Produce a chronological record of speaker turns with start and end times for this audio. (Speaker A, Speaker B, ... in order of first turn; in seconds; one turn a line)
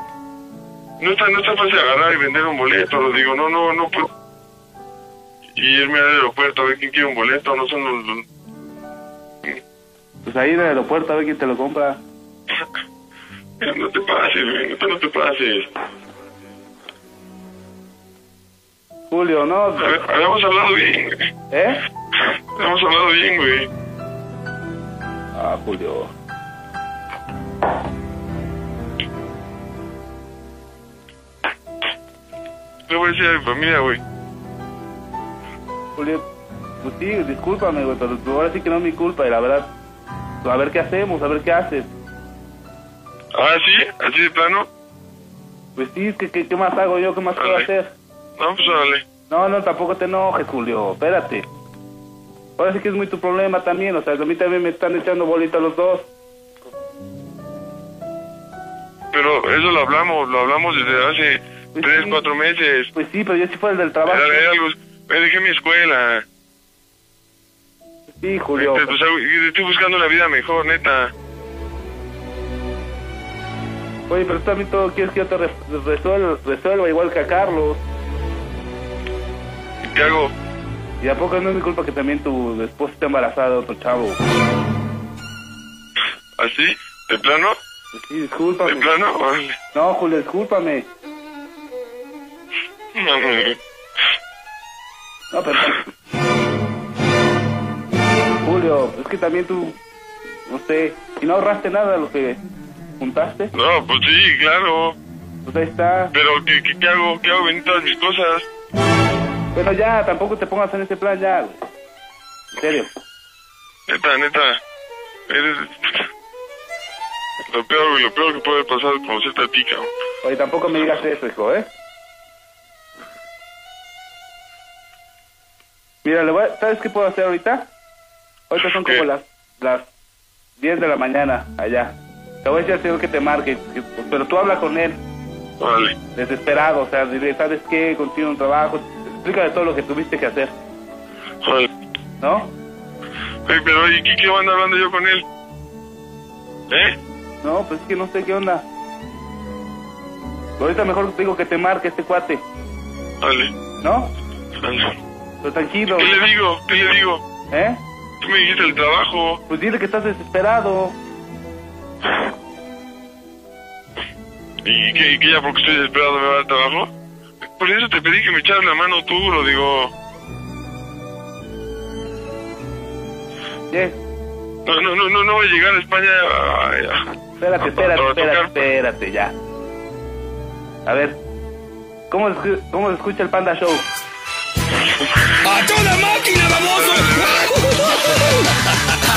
Speaker A: 1.0-4.1
Speaker A: 5.5-8.2
Speaker B: 10.2-12.0
Speaker A: 13.6-15.7
Speaker B: 19.1-20.0
Speaker A: 19.8-21.3
Speaker B: 21.5-21.8
Speaker A: 22.1-23.7
Speaker B: 25.3-26.1
Speaker A: 32.9-34.0
Speaker B: 36.0-36.2
Speaker B: 36.8-39.7
Speaker B: 40.4-41.9
Speaker A: 43.3-44.7
Speaker B: 45.8-47.9
Speaker A: 47.4-47.7
Speaker A: 48.4-49.0
Speaker B: 49.3-51.5
Speaker B: 52.6-56.1
Speaker A: 59.1-62.9
Speaker B: 61.8-62.2
Speaker B: 62.9-64.5
Speaker A: 64.1-66.2
Speaker B: 68.1-68.9
Speaker A: 68.5-71.1
Speaker B: 74.1-77.8
Speaker A: 79.8-80.3
Speaker B: 81.0-84.2
Speaker A: 86.4-87.6
Speaker B: 87.9-88.9
Speaker A: 88.7-89.6
Speaker B: 89.7-90.9
Speaker A: 92.9-93.6
Speaker B: 95.3-95.9
Speaker B: 98.4-99.8
Speaker B: 100.5-102.4
Speaker B: 103.0-103.5
Speaker A: 103.5-105.0
Speaker B: 105.4-106.1
Speaker A: 106.1-108.5
Speaker B: 109.5-111.6
Speaker B: 112.6-112.9
Speaker A: 113.9-114.6
Speaker A: 115.3-116.1
Speaker A: 117.5-119.9
Speaker B: 120.2-121.7
Speaker B: 126.0-127.7
Speaker B: 128.5-129.9
Speaker A: 128.7-129.0
Speaker B: 130.6-135.0
Speaker A: 135.6-135.9
Speaker B: 136.1-140.5
Speaker A: 141.4-141.7
Speaker B: 142.2-142.5
Speaker A: 143.4-145.2
Speaker A: 146.7-146.9
Speaker B: 147.4-148.6
Speaker B: 150.6-152.4
Speaker A: 153.2-153.5
Speaker B: 153.8-154.1
Speaker A: 154.6-155.0
Speaker B: 155.4-156.2
Speaker A: 155.9-157.2
Speaker B: 157.5-157.8
Speaker A: 158.2-159.4
Speaker B: 159.5-160.9
Speaker A: 164.6-166.9
Speaker A: 167.6-169.9
Speaker B: 173.7-174.0
Speaker A: 174.7-178.6
Speaker B: 177.4-179.3
Speaker B: 180.8-181.2
Speaker B: 182.1-183.8
Speaker C: 185.4-188.2
Speaker A: 186.7-187.5